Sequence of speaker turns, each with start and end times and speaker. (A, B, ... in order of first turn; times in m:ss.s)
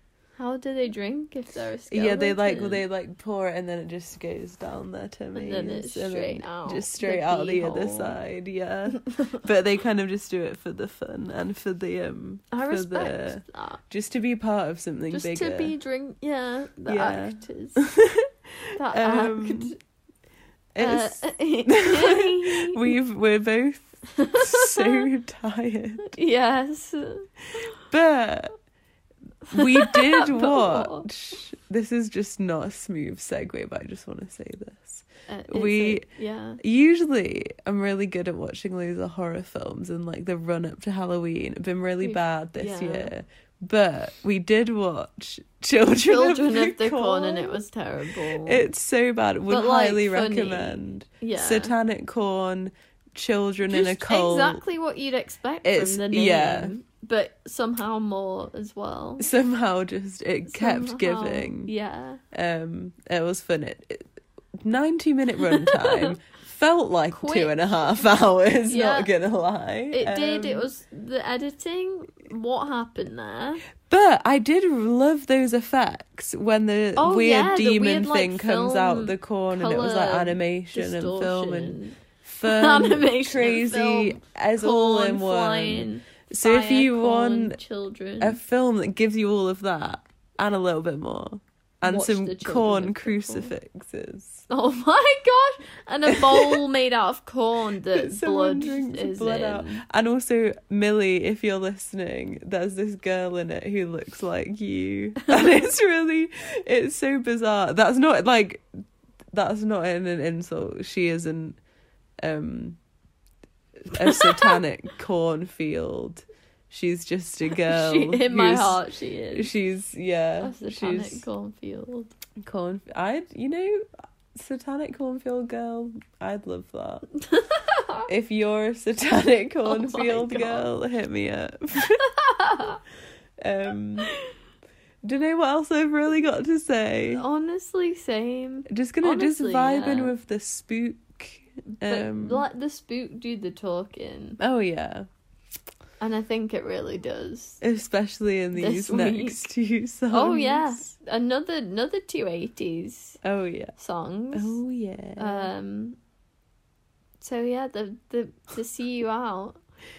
0:00.4-0:02.8 A
0:01.9-0:15.7 B
0:05.3-0:08.2 A
0:12.5-0:13.8 A
0:15.1-0:17.8 A
0:16.8-0:19.7 B
0:18.8-0:19.8 A
0:20.7-0:26.2 B
0:20.8-0:22.9 A
0:24.2-0:25.0 A
0:26.0-0:27.3 A
0:27.8-0:28.5 B
0:29.5-0:36.1 B
0:29.5-0:31.1 A
0:35.3-0:36.6 A
0:36.6-0:47.6 B
0:42.0-0:43.1 A
0:46.0-0:48.6 A
0:48.4-0:54.6 B
0:49.5-0:51.7 A
0:53.6-0:59.3 A
0:55.6-0:56.7 B
0:59.2-1:01.7 B
1:00.5-1:02.2 A
1:02.3-1:10.7 B
1:05.7-1:06.1 A
1:07.1-1:08.1 A
1:08.7-1:09.1 A
1:09.9-1:13.6 A
1:13.8-1:27.6 B
1:17.0-1:28.4 A
1:28.2-1:34.5 B
1:31.8-1:33.5 A
1:34.5-1:39.8 A
1:36.1-1:36.6 B
1:37.9-1:48.6 B
1:49.3-1:51.6 B
1:52.2-1:52.8 B
1:53.9-2:01.2 B
1:57.5-1:59.5 A
2:00.4-2:02.1 A
2:02.4-2:07.0 B
2:07.5-2:08.0 A
2:08.1-2:12.1 B
2:09.6-2:10.7 A
2:12.3-2:12.8 A
2:13.4-2:14.1 B
2:15.0-2:17.2 B
2:17.1-2:20.1 A
2:18.7-2:22.4 B
2:21.8-2:24.4 A
2:24.4-2:25.1 B
2:26.0-2:27.6 A
2:27.6-2:30.9 B
2:28.6-2:29.5 A
2:30.1-2:33.2 A
2:33.2-2:33.7 B
2:33.8-2:34.6 A
2:34.3-2:35.5 B
2:35.2-2:36.0 A
2:37.2-2:39.6 A